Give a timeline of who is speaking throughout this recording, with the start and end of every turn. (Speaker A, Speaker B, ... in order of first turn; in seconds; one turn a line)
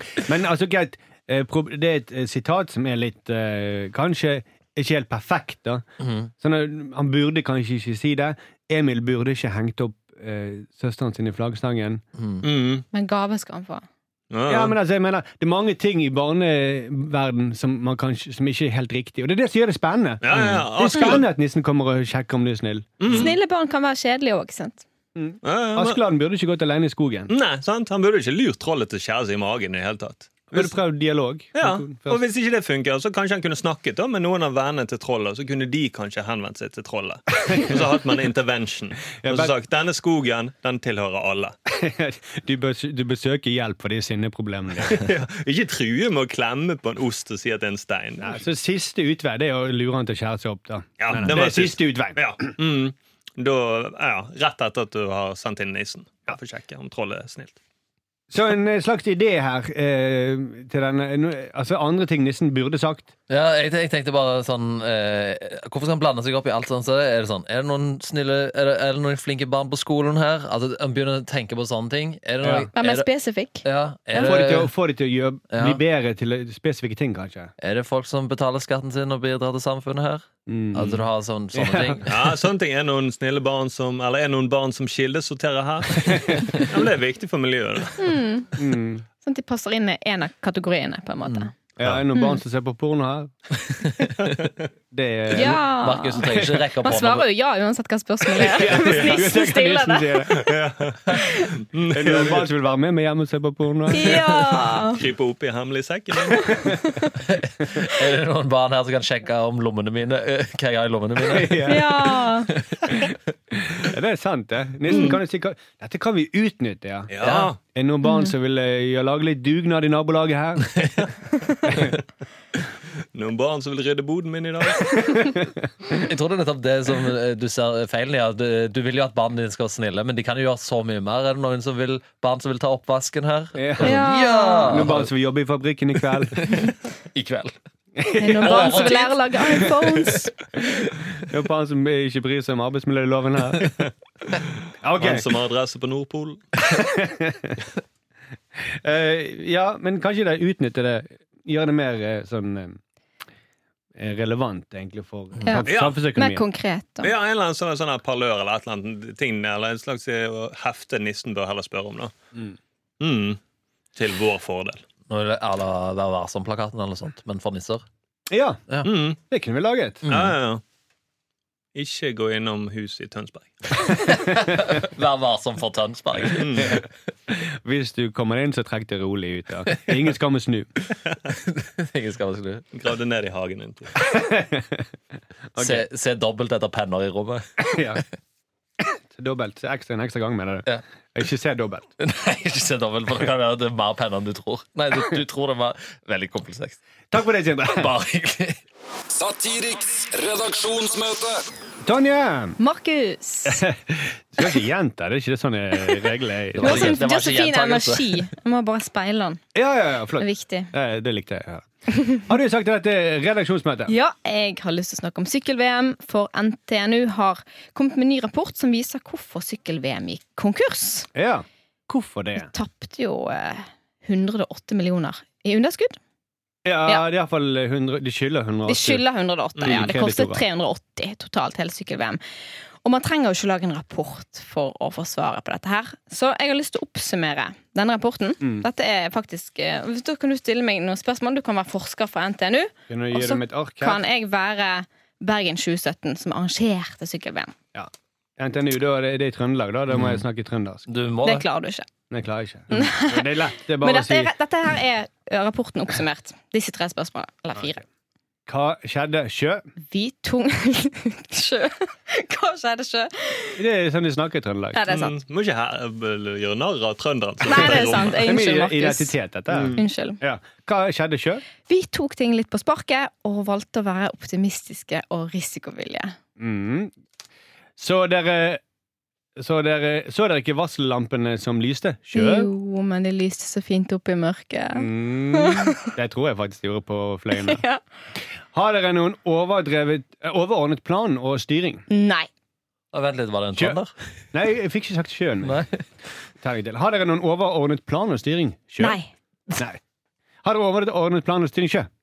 Speaker A: 0.2-5.8
Speaker B: 6.0-6.3
Speaker A: 6.4-12.0
Speaker B: 12.2-12.4
Speaker C: 12.4-12.8
Speaker D: 12.9-13.8
Speaker C: 14.3-14.8
Speaker A: 14.5-23.3
Speaker C: 20.2-21.2
Speaker B: 20.3-20.6
Speaker C: 23.0-23.4
Speaker D: 23.1-24.8
Speaker A: 25.1-27.3
Speaker C: 25.4-26.0
Speaker C: 27.3-30.7
Speaker A: 30.5-32.2
Speaker C: 31.6-41.5
Speaker A: 37.5-37.8
Speaker A: 39.2-39.5
Speaker A: 41.7-45.1
Speaker C: 44.9-48.4
Speaker A: 48.2-52.2
Speaker C: 51.0-57.6
Speaker A: 58.3-63.1
Speaker B: 63.3-73.1
Speaker A: 72.4-72.7
Speaker D: 72.8-74.4
Speaker B: 73.6-74.7
Speaker A: 74.1-77.5
Speaker B: 75.5-75.8
Speaker B: 77.6-82.1
Speaker A: 80.5-81.0
Speaker A: 81.5-82.0
Speaker C: 82.1-88.0
Speaker A: 86.0-86.5
Speaker D: 88.0-88.5
Speaker A: 88.6-89.0
Speaker D: 89.2-91.5
Speaker B: 91.2-92.0
Speaker A: 91.8-93.3
Speaker B: 93.8-94.1
Speaker A: 94.9-95.6
Speaker D: 95.3-96.3
Speaker B: 95.3-97.2
Speaker A: 96.2-96.7
Speaker D: 96.8-100.4
Speaker A: 98.3-100.6
Speaker C: 98.8-99.2
Speaker C: 100.3-102.5
Speaker D: 101.1-101.5
Speaker A: 101.9-104.6
Speaker D: 103.9-105.0
Speaker C: 104.9-106.6
Speaker D: 106.6-107.1
Speaker B: 107.2-113.1
Speaker A: 111.2-112.1
Speaker D: 111.7-112.5
Speaker A: 113.8-120.9
Speaker D: 114.9-115.2
Speaker C: 117.1-117.6
Speaker B: 117.2-117.5
Speaker D: 118.0-118.3
Speaker C: 123.1-125.3
Speaker B: 125.9-135.1
Speaker A: 133.6-136.6
Speaker D: 133.8-134.8
Speaker B: 136.2-137.6
Speaker A: 138.0-139.0
Speaker D: 138.2-140.3
Speaker B: 138.4-140.0
Speaker A: 141.2-143.8
Speaker A: 144.8-145.3
Speaker C: 145.0-146.4
Speaker A: 146.6-147.6
Speaker A: 148.6-152.8
Speaker A: 153.9-156.4
Speaker D: 155.4-157.1
Speaker C: 155.7-156.0
Speaker C: 157.0-162.1
Speaker C: 163.0-163.4
Speaker C: 164.0-164.8
Speaker B: 165.1-167.8
Speaker A: 168.3-170.0
Speaker C: 168.8-169.2
Speaker B: 170.1-170.4
Speaker C: 170.1-170.6
Speaker C: 171.8-174.0
Speaker B: 174.1-176.9
Speaker C: 176.3-176.8
Speaker A: 177.3-180.7
Speaker B: 181.4-182.7
Speaker C: 182.7-183.9
Speaker A: 184.0-184.8
Speaker A: 185.6-185.9
Speaker B: 185.6-188.0
Speaker A: 187.6-188.0
Speaker A: 188.8-191.9
Speaker B: 192.0-196.8
Speaker A: 197.1-197.9
Speaker B: 197.7-198.6
Speaker E: 199.1-201.4
Speaker A: 201.8-202.6
Speaker D: 202.6-203.7
Speaker A: 203.5-207.0
Speaker B: 206.6-208.2
Speaker D: 206.6-209.4
Speaker A: 209.5-211.7
Speaker D: 210.2-210.7
Speaker D: 211.9-212.2
Speaker A: 212.2-213.9
Speaker D: 213.9-221.1
Speaker A: 221.1-222.5
Speaker D: 222.4-226.0
Speaker A: 226.7-229.0
Speaker D: 228.7-232.2
Speaker A: 229.6-230.4
Speaker D: 232.8-247.5
Speaker A: 242.9-244.0
Speaker A: 247.7-250.9
Speaker B: 249.9-250.2
Speaker B: 250.9-251.5
Speaker D: 251.2-251.9
Speaker A: 252.1-254.3
Speaker D: 252.7-253.2
Speaker D: 253.8-257.8
Speaker A: 258.5-259.6
Speaker D: 259.9-263.6
Speaker A: 263.6-264.8
Speaker D: 264.7-265.1
Speaker C: 264.9-268.3
Speaker D: 267.4-269.1
Speaker A: 267.5-271.4
Speaker C: 269.5-269.8
Speaker D: 269.8-270.2
Speaker D: 271.7-276.2
Speaker A: 276.4-276.9
Speaker A: 277.8-278.6
Speaker A: 279.4-282.5
Speaker D: 282.1-285.7
Speaker A: 284.7-287.6
Speaker D: 287.3-287.8
Speaker A: 288.5-291.9
Speaker D: 291.9-292.3
Speaker B: 292.9-293.9
Speaker A: 294.3-295.6
Speaker B: 295.4-295.8
Speaker A: 296.4-299.0
Speaker D: 298.8-299.1
Speaker A: 299.5-299.8
Speaker A: 300.4-301.9